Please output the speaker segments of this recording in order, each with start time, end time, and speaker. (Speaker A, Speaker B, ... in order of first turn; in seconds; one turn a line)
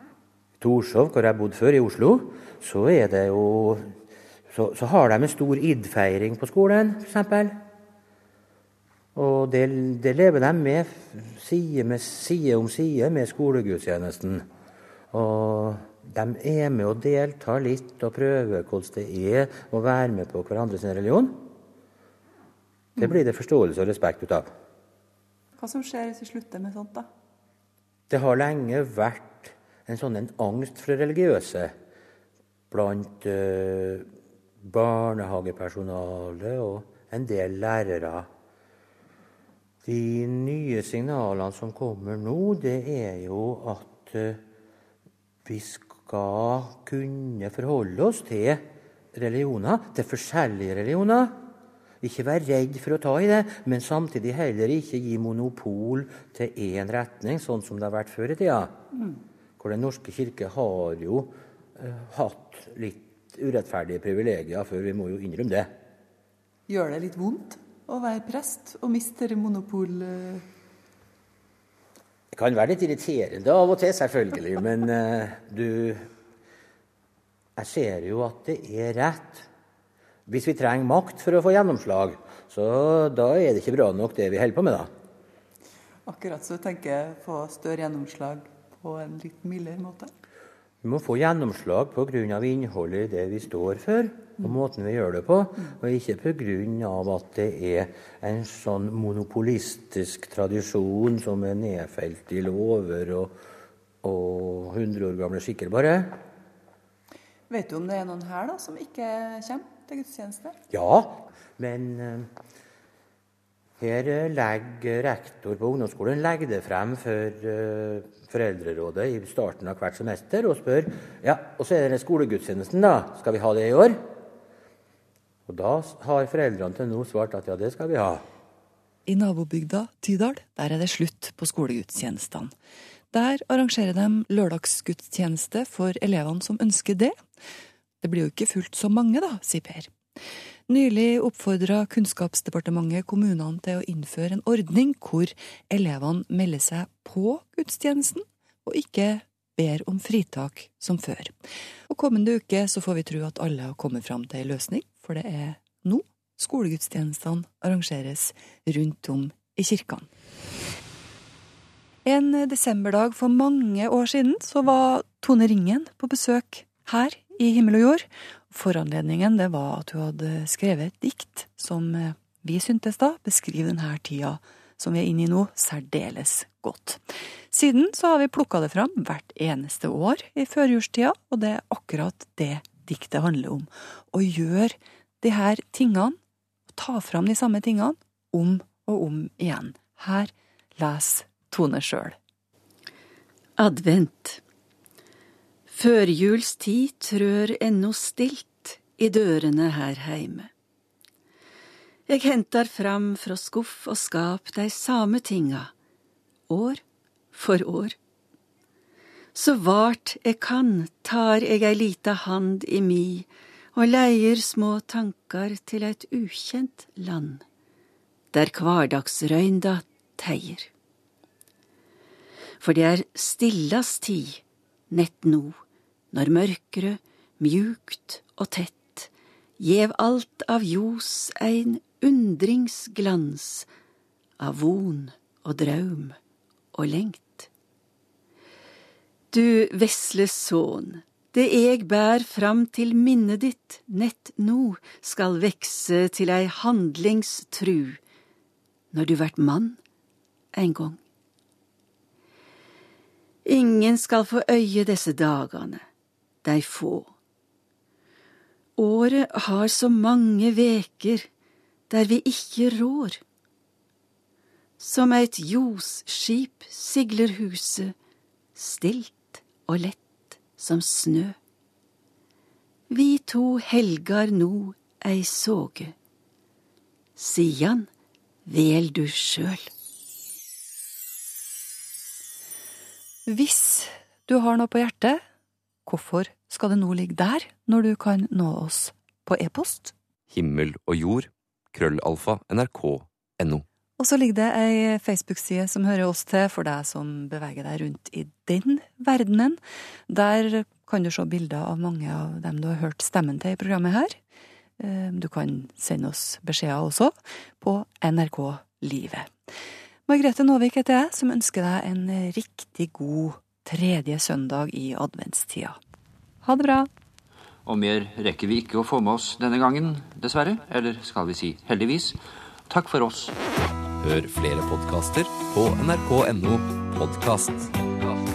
Speaker A: 0.6-3.9
Speaker A: 4.5-7.5
Speaker A: 9.1-14.4
Speaker A: 15.1-21.5
Speaker A: 23.0-24.5
Speaker B: 25.6-27.1
Speaker A: 28.1-31.7
Speaker A: 32.7-34.1
Speaker A: 34.6-38.3
Speaker A: 39.8-44.4
Speaker A: 45.5-51.4
Speaker A: 52.0-58.7
Speaker A: 59.6-65.7
Speaker B: 66.7-70.4
Speaker A: 72.3-76.1
Speaker A: 77.6-79.5
Speaker A: 80.3-84.9
Speaker B: 86.0-90.1
Speaker A: 90.8-103.3
Speaker A: 104.0-106.2
Speaker B: 107.5-110.6
Speaker A: 110.7-112.3
Speaker A: 113.8-124.0
Speaker A: 125.5-128.2
Speaker B: 129.1-132.5
Speaker B: 133.1-137.2
Speaker B: 138.0-139.9
Speaker B: 140.7-151.3
Speaker B: 151.9-160.1
Speaker B: 162.0-186.2
Speaker B: 186.7-192.2
Speaker C: 193.6-194.4
Speaker C: 195.7-200.5
Speaker C: 202.1-205.7
Speaker C: 206.5-206.8
Speaker C: 207.3-207.9
Speaker C: 209.3-217.4
Speaker C: 218.3-220.7
Speaker C: 222.6-225.6
Speaker C: 226.1-233.7
Speaker C: 234.4-236.2
Speaker C: 236.7-237.5
Speaker C: 239.3-248.0
Speaker C: 248.9-249.8
Speaker C: 250.5-251.0
Speaker C: 253.4-255.8
Speaker C: 256.4-257.1
Speaker C: 258.8-261.3
Speaker C: 261.9-263.2
Speaker C: 264.8-267.9
Speaker C: 268.6-271.4
Speaker C: 272.9-275.9
Speaker C: 277.2-277.9
Speaker C: 278.4-279.7
Speaker B: 283.3-285.2
Speaker B: 285.9-289.9
Speaker D: 290.3-293.6
Speaker B: 294.0-304.2
Speaker B: 304.8-309.3
Speaker B: 310.1-315.8
Speaker B: 316.4-316.9
Speaker E: 317.6-323.3
Speaker D: 324.0-327.7